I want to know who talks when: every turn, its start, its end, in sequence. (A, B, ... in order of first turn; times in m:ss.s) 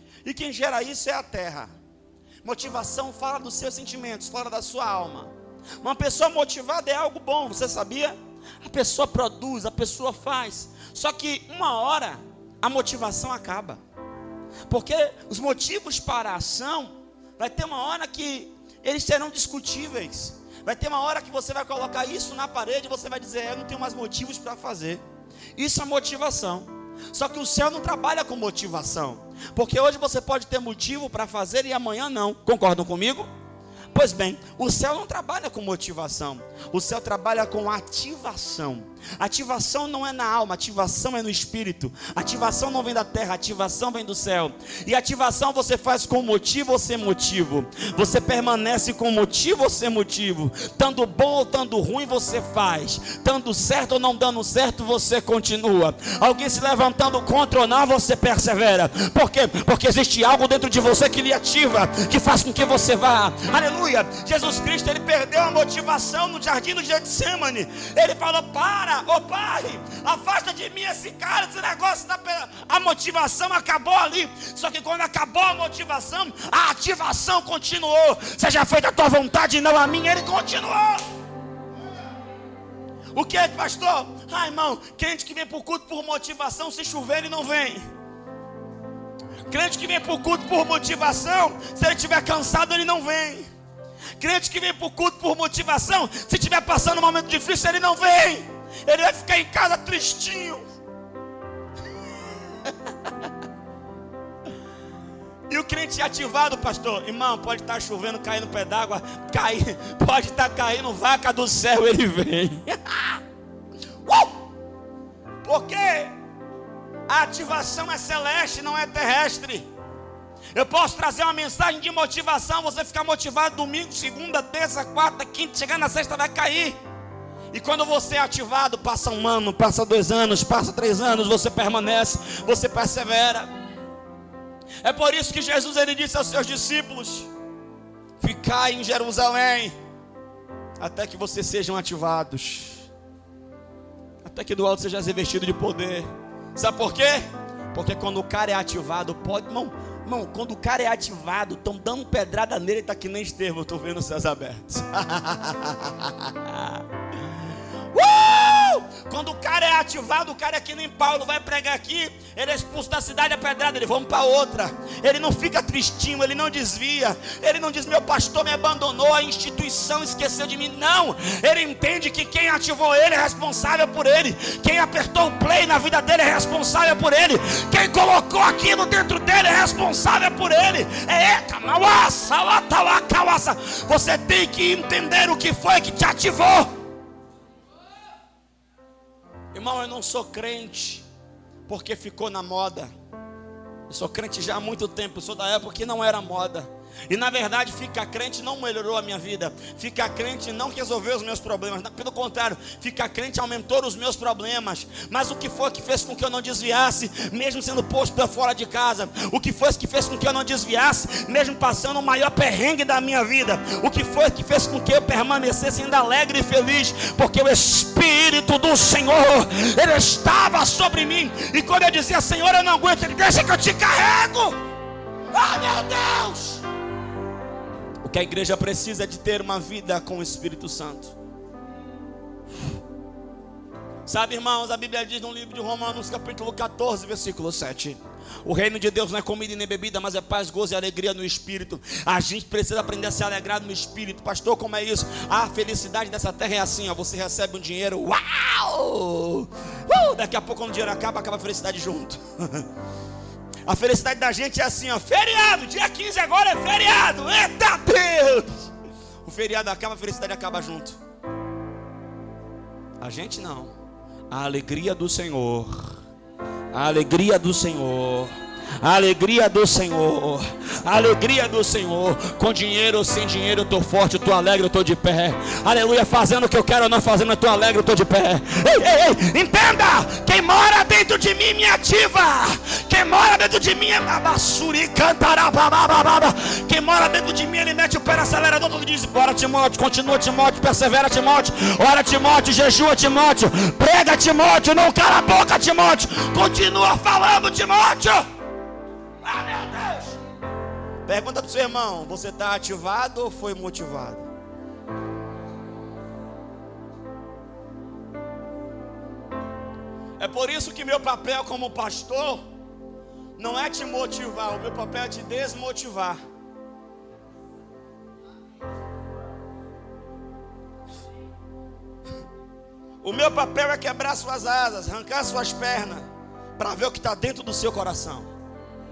0:00.2-0:01.7 A
0:02.4-0:13.8 A
0:14.7-0:25.0 A
0:25.6-0:33.3 A
0:33.9-1:21.0 A
1:23.1-1:27.8 A
1:29.5-1:33.5 A
1:34.2-1:40.6 A
1:42.6-1:43.3 A
1:45.5-1:53.2 A
1:54.0-1:54.4 A
1:55.4-1:56.1 A
1:57.1-1:59.7 A
2:00.5-2:06.8 A
2:07.5-2:13.5 A
2:14.8-2:17.3 A
2:18.2-2:19.8 A
2:20.8-2:22.9 A
2:24.2-2:36.9 A
2:37.9-3:06.7 A
3:09.5-3:11.0 A
3:11.7-3:12.9 A
3:13.9-3:44.6 A
3:45.3-3:46.6 A
3:48.0-3:51.1 A
3:54.0-4:12.7 A
4:13.6-4:18.7 A
4:19.2-4:21.0 A
4:23.0-4:23.8 A
4:24.3-4:26.0 A
4:26.7-4:58.2 A
4:59.2-5:00.2 A
5:01.0-5:04.2 A
5:10.2-5:12.4 A
5:13.4-5:16.2 A
5:23.0-5:26.0 A
5:26.6-5:28.3 A